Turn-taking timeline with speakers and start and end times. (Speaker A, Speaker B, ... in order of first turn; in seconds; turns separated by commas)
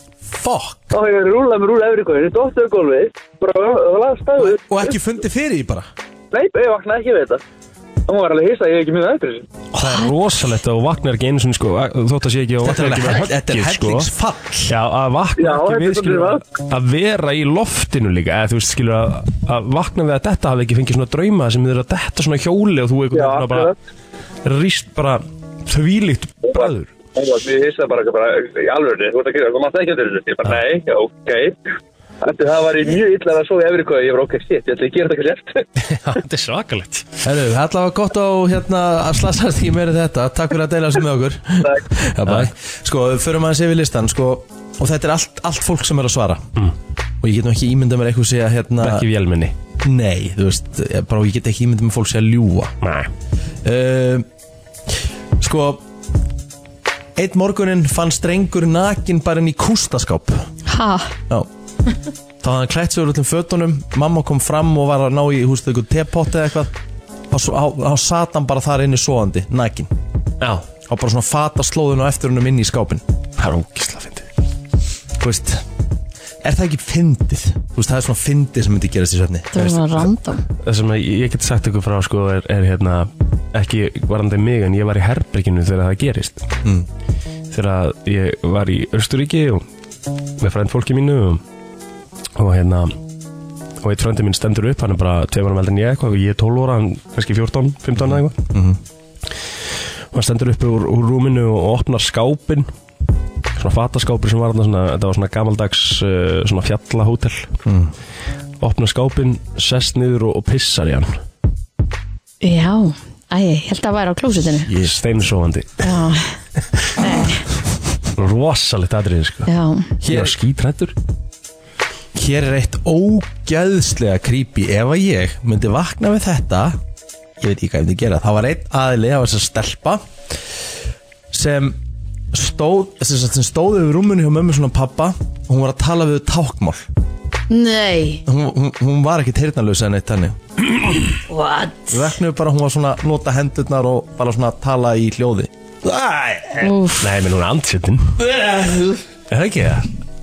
Speaker A: 0.3-1.0, Speaker B: 0.9-5.0, Speaker A: 4.4-5.9, Speaker B: 6.3-7.4, Speaker B: 8.1-9.4, Speaker C: 9.7-14.1, Speaker A: 12.6-14.7, Speaker C: 14.7-23.7, Speaker B: 15.4-16.4, Speaker B: 23.1-23.8, Speaker C: 24.4-26.9, Speaker B: 26.5-31.6, Speaker B: 32.2-35.6, Speaker C: 35.8-37.1, Speaker A: 37.2-46.5, Speaker C: 42.2-42.5, Speaker A: 47.2-49.1, Speaker C: 48.8-49.5, Speaker A: 49.8-52.8, Speaker C: 52.8-53.1, Speaker A: 53.6-54.3, Speaker A: 55.4-55.8, Speaker A: 57.2-60.5, Speaker D: 60.7-61.1, Speaker A: 62.4-66.7, Speaker A: 67.3-69.9, Speaker A: 70.9-73.0, Speaker C: 73.4-74.2, Speaker A: 75.2-75.6, Speaker A: 76.4-79.8, Speaker D: 79.5-80.5, Speaker C: 80.6-86.5, Speaker C: 87.5-89.7, Speaker C: 90.4-91.4, Speaker C: 92.4-93.0, Speaker C: 93.8-98.4, Speaker A: 98.0-98.8, Speaker C: 100.1-102.7, Speaker C: 103.6-107.5, Speaker A: 107.7-107.9, Speaker C: 108.6-111.2, Speaker D: 112.4-114.7, Speaker C: 114.7-116.0, Speaker D: 115.8-116.3, Speaker D: 117.0-117.4, Speaker C: 118.2-119.5, Speaker D: 119.5-119.9, Speaker C: 120.0-121.0, Speaker A: 120.0-120.3, Speaker A: 122.2-126.8, Speaker A: 127.4-130.0, Speaker A: 131.3-131.8, Speaker A: 132.3-136.9, Speaker D: 137.5-138.2, Speaker A: 138.3-140.4, Speaker D: 141.3-142.1, Speaker A: 141.9-146.8, Speaker D: 146.6-147.1, Speaker C: 147.0-148.2, Speaker A: 148.2-149.0, Speaker C: 149.3-149.9